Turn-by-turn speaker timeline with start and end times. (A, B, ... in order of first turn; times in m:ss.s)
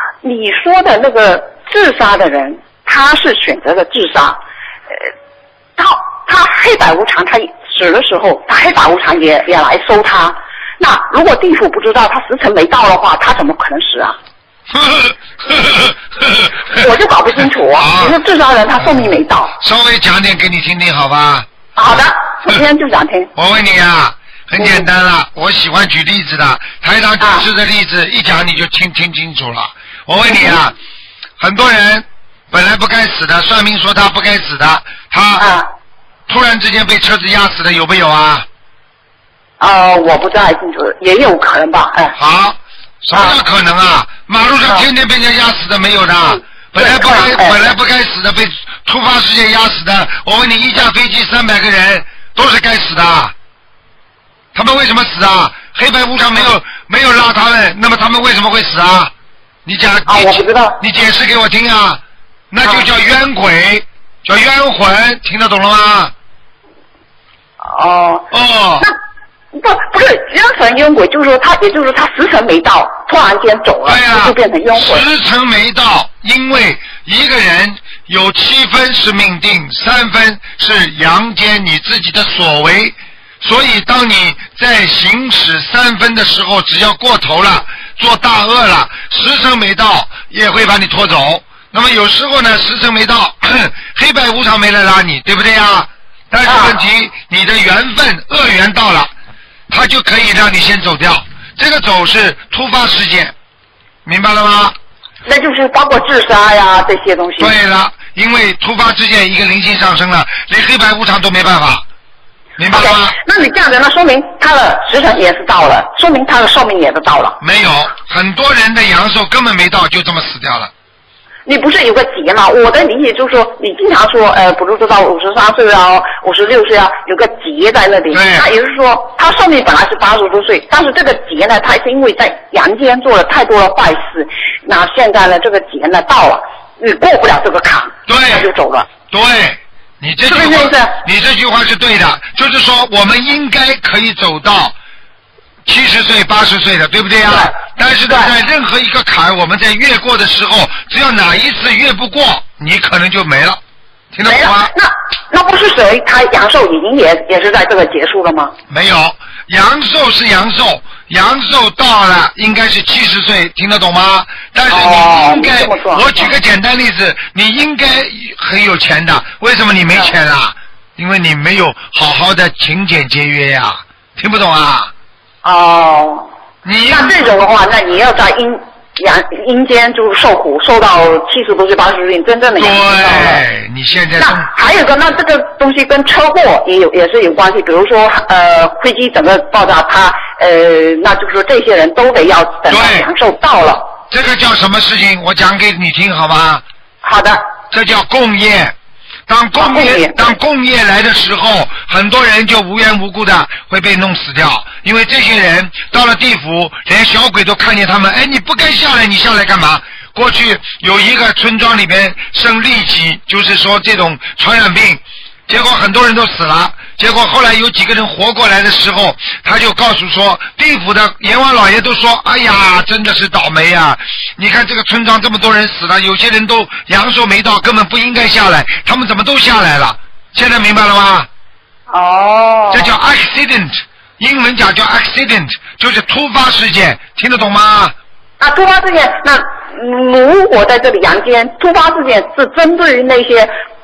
0:00.2-0:04.4 A
0:05.8-0:14.2 A
0:14.7-0:16.8 B
0:16.7-0:19.6 A
0:17.7-0:18.1 B
0:19.6-0:21.4 B
0:21.8-0:23.3 A
0:23.4-0:30.7 B
0:24.6-0:24.8 A
0:27.2-0:27.5 A
0:30.3-0:30.6 A
0:31.4-0:35.5 B
0:35.4-0:35.7 A
0:36.3-0:38.5 B
0:39.6-0:42.2 A
0:42.2-0:53.3 B
0:46.8-0:47.8 A
0:54.5-0:59.1 B
0:59.7-1:06.1 B
1:00.0-1:00.8 A
1:07.6-1:08.3 A
1:08.3-1:08.9 B
1:09.5-1:15.0 A
1:13.8-1:39.1 B
1:36.4-1:36.8 A
1:39.7-1:43.3 B
1:44.0-1:44.7 B
1:45.2-1:47.5 A
1:47.4-1:51.8 B
1:52.6-1:53.2 B
1:52.7-1:57.4 A
1:57.4-2:00.7 B
2:01.4-2:18.9 A
2:08.1-2:08.5 B
2:18.1-2:18.5 B
2:19.1-2:24.8 B
2:20.3-2:20.9 A
2:25.7-2:33.6 B
2:27.3-2:27.5 A
2:28.1-2:28.3 A
2:34.1-2:34.7 B
2:34.2-2:38.5 A
2:38.7-2:54.9 B
2:44.7-2:46.3 A
2:55.4-2:56.3 A
2:56.6-2:57.4 B
2:56.9-3:03.4 A
3:02.6-3:04.5 B
3:04.2-3:13.9 A
3:12.7-3:13.1 B
3:14.1-3:16.6 B
3:17.0-3:17.4 A
3:17.7-3:18.8 B
3:19.3-3:51.3 B
3:19.6-3:20.3 A
3:51.9-3:52.9 A
3:52.7-3:57.9 B
3:58.4-4:03.5 A